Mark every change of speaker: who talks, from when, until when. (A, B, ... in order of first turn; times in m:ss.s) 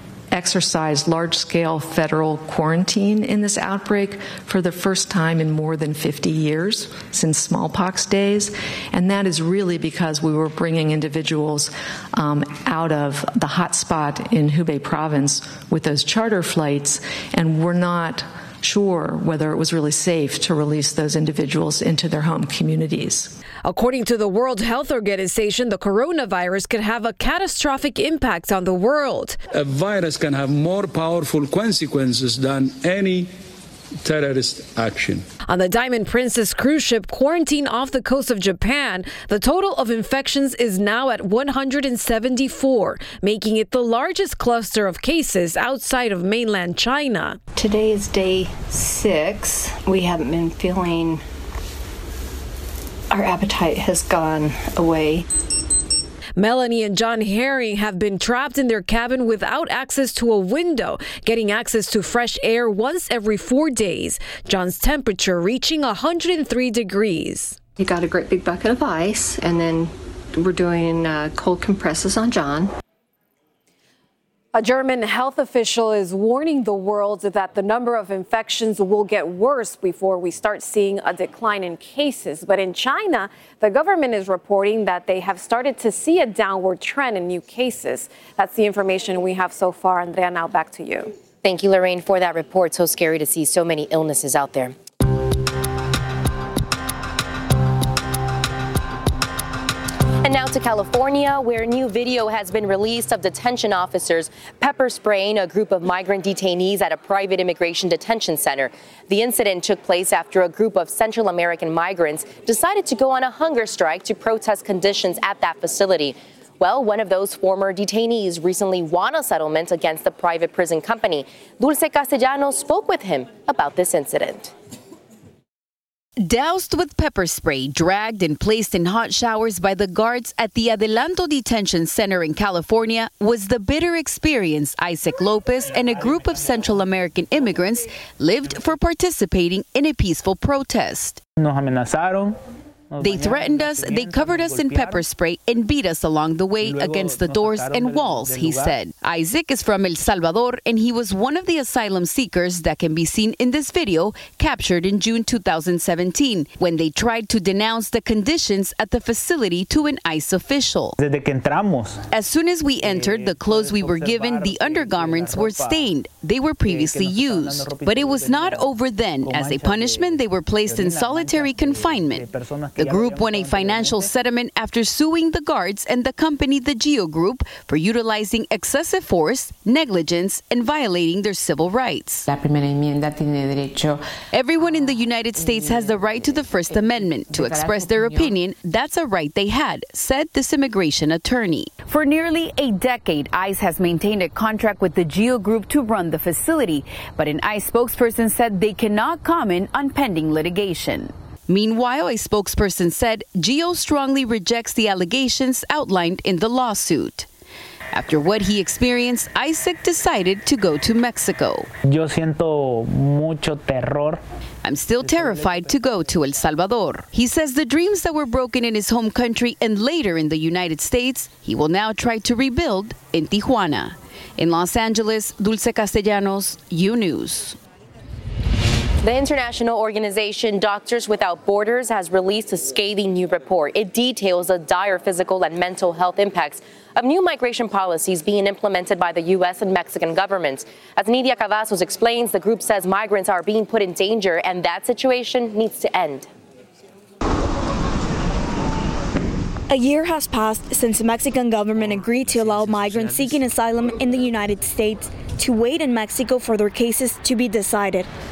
0:00.3-0:23.4 A
0:23.6-0:29.4 B
0:29.5-0:33.3 C
0:34.0-0:35.2 C
0:35.5-0:47.4 B
0:47.6-0:51.2 D
0:53.1-0:55.2 D
0:56.4-1:07.6 B
1:07.8-1:12.7 D
1:14.6-1:23.2 B
1:23.8-1:25.0 B
1:25.5-1:27.5 B
1:31.4-1:34.7 E
1:40.2-2:04.5 E
2:06.2-2:21.2 F
2:21.4-2:22.4 G
2:22.9-2:25.0 G
2:23.0-2:41.0 F
2:26.6-2:28.8 G
2:41.0-2:42.0 G
2:42.1-3:02.2 F
2:42.8-2:45.9 G
2:46.7-2:48.7 G
2:49.2-2:50.2 G
2:50.7-2:54.1 G
3:02.3-3:04.0 H
3:04.3-3:27.3 F
3:04.6-3:08.4 H
3:27.9-3:31.7 F
3:31.9-3:34.2 G
3:34.6-3:47.6 F
3:35.0-3:35.7 G
3:49.0-4:06.3 E
4:09.7-4:18.1 I